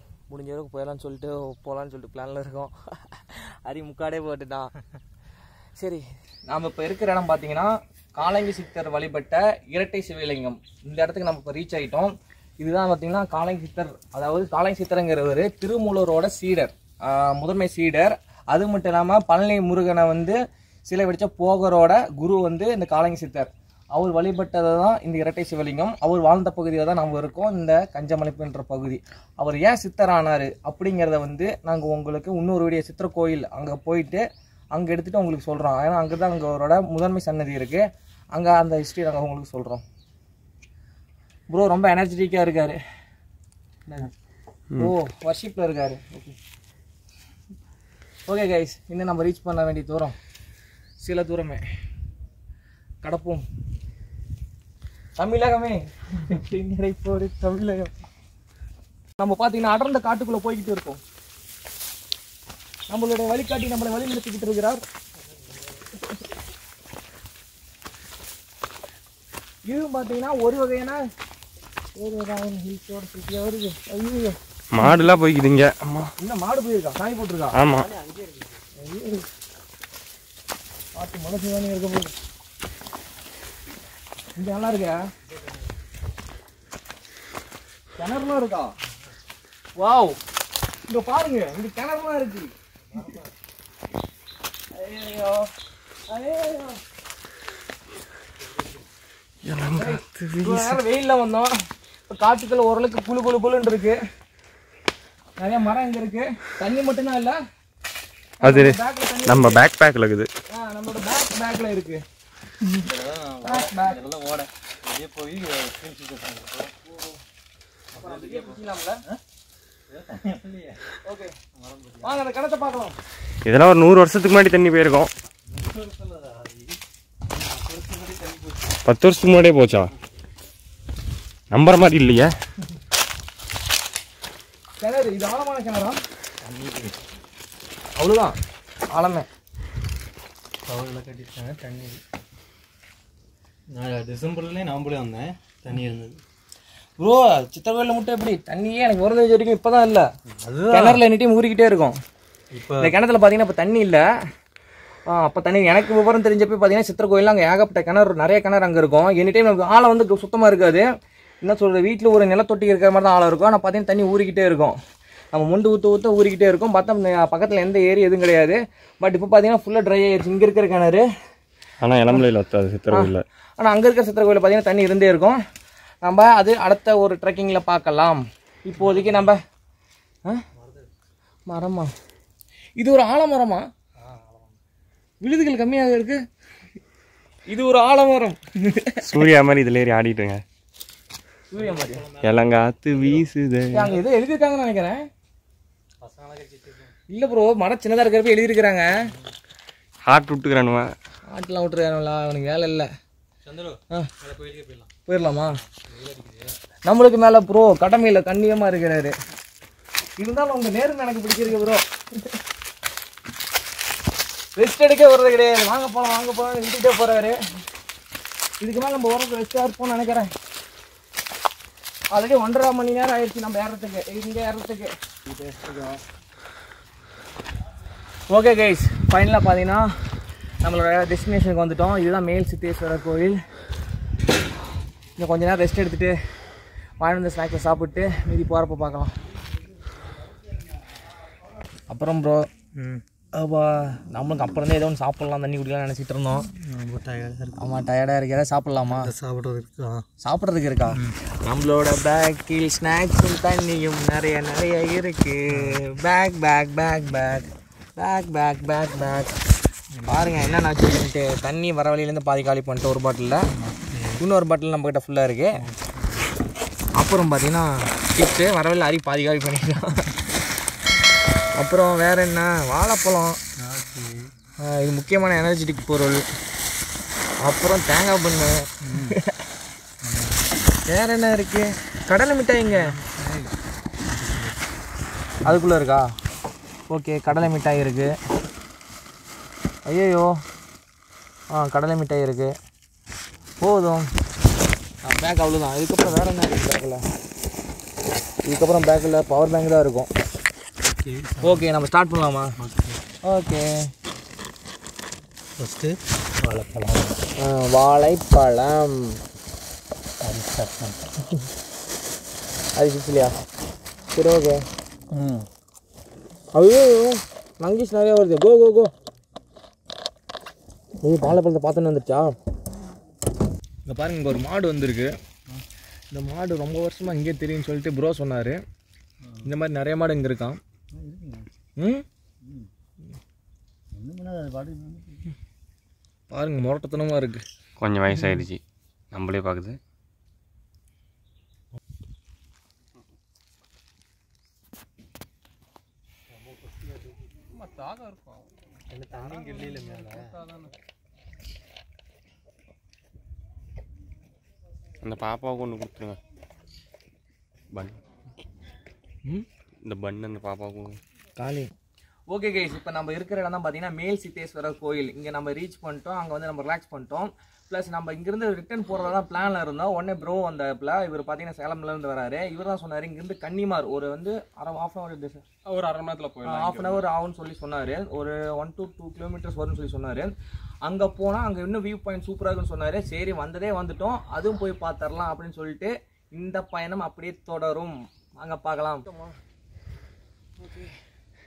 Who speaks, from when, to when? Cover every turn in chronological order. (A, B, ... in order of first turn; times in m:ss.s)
0:00.3-0:04.7 A
0:05.8-0:39.8 A
0:41.5-0:42.8 A
0:43.9-0:44.1 A
0:44.8-0:46.4 A
0:48.3-0:50.2 A
0:51.0-0:51.6 A
0:53.0-0:53.4 A
0:55.2-0:57.9 A
0:59.2-1:01.0 A
1:02.9-1:04.8 A
1:09.7-1:11.0 A
1:12.0-1:15.0 A
1:14.7-1:16.1 B
1:16.2-1:17.6 A
1:17.6-1:17.9 B
1:17.8-1:18.6 C
1:18.8-1:19.3 A
1:21.0-1:22.1 A
1:24.4-1:25.0 A
1:25.3-1:25.7 C
1:28.0-1:28.8 A
1:29.8-1:30.2 A
1:30.9-1:32.5 A
1:32.9-1:33.3 C
1:34.7-1:35.5 A
1:36.1-1:36.8 A
1:38.5-1:38.8 C
1:39.5-1:40.8 B
1:39.7-1:41.6 A
1:42.1-1:44.0 A
1:45.4-1:47.4 A
1:48.4-1:49.6 A
1:48.4-1:50.3 B
1:50.5-1:52.0 A
1:52.8-1:56.7 C
1:53.4-1:54.0 A
1:56.8-1:57.2 A
1:57.9-1:59.2 C
1:57.9-1:59.0 A
1:59.9-2:00.8 C
2:01.0-2:01.4 A
2:01.6-2:02.2 C
2:02.0-2:03.0 A
2:03.5-2:05.1 B
2:05.5-2:06.8 C
2:07.3-2:08.8 C
2:08.8-2:09.9 B
2:11.5-2:12.3 B
2:14.8-2:16.0 A
2:16.4-2:17.0 C
2:18.0-2:18.4 A
2:18.9-2:19.3 A
2:20.6-2:22.0 C
2:23.7-2:26.2 C
2:27.0-2:30.1 A
2:30.3-2:31.0 C
2:30.7-2:32.0 A
2:32.5-2:33.0 C
2:32.8-2:34.1 A
2:35.1-2:40.9 A
2:41.4-2:44.8 A
2:45.3-2:51.0 A
2:51.8-2:53.2 B
2:52.9-2:55.4 A
2:56.0-2:59.4 A
2:58.8-2:59.3 C
3:00.6-3:00.9 C
3:01.5-3:01.9 A
3:02.8-3:03.7 A
3:04.0-3:04.6 C
3:05.2-3:06.2 A
3:07.5-3:09.3 A
3:09.0-3:10.4 B
3:11.5-3:12.0 A
3:11.5-3:13.3 C
3:12.2-3:14.0 B
3:13.7-3:15.0 A
3:16.0-3:17.0 C
3:17.1-3:18.9 A
3:20.1-3:20.9 B
3:21.3-3:22.9 A
3:23.4-3:24.9 C
3:25.1-3:25.5 A
3:25.7-3:26.6 C
3:26.9-3:29.1 A
3:30.2-3:32.4 A
3:34.6-3:37.4 A
3:38.6-3:40.3 A
3:42.1-3:46.0 A
3:48.3-3:50.0 A
3:50.6-3:53.4 A
3:55.2-3:56.2 A
3:57.0-3:59.1 A
4:01.9-4:02.5 A
4:02.8-4:03.0 C
4:03.3-4:06.5 A
4:06.5-4:07.6 C
4:07.6-4:09.1 A
4:08.9-4:10.0 C
4:10.2-4:19.3 A
4:10.9-4:11.2 C
4:15.5-4:15.8 C
4:19.9-4:20.6 C
4:20.1-4:23.5 A
4:23.5-4:24.2 C
4:24.2-4:25.6 A
4:25.6-4:26.4 C
4:27.0-4:30.2 A
4:31.6-4:33.4 A
4:33.6-4:34.3 C
4:34.6-4:36.2 A
4:37.4-4:39.4 A
4:38.8-4:39.2 C
4:40.0-4:40.4 C
4:40.9-4:42.9 A
4:42.7-4:43.5 C
4:44.1-4:44.6 C
4:45.4-4:46.1 A
4:46.9-4:48.2 A
4:49.9-4:50.3 A
4:51.5-4:52.5 A
4:53.6-4:54.1 A
4:55.0-4:57.0 A
4:58.5-5:00.1 A
5:00.8-5:01.7 C
5:01.4-5:02.6 A
5:02.6-5:03.0 C
5:03.2-5:03.8 A
5:05.6-5:07.2 C
5:07.4-5:09.2 A
5:10.2-5:11.0 C
5:12.8-5:13.3 A
5:14.1-5:14.6 A
5:15.1-5:15.5 C
5:16.5-5:18.9 A
5:21.0-5:22.3 A
5:23.9-5:25.1 A
5:26.1-5:28.6 A
5:29.4-5:30.6 A
5:30.9-5:31.5 C
5:31.8-5:32.0 A
5:32.4-5:32.7 C
5:33.9-5:35.4 C
5:36.3-5:37.4 A
5:37.8-5:38.6 B
5:39.1-5:39.8 B
5:46.3-5:47.2 C
5:47.5-5:48.5 D
5:48.9-5:50.4 C
5:49.2-5:50.7 D
5:55.0-5:56.2 B
5:57.7-5:58.0 B
5:59.8-6:01.0 B
6:01.4-6:01.7 A
6:02.3-6:15.4 A
6:15.7-6:17.1 D
6:16.4-6:20.3 A
6:20.8-6:29.3 A
6:30.6-6:31.0 A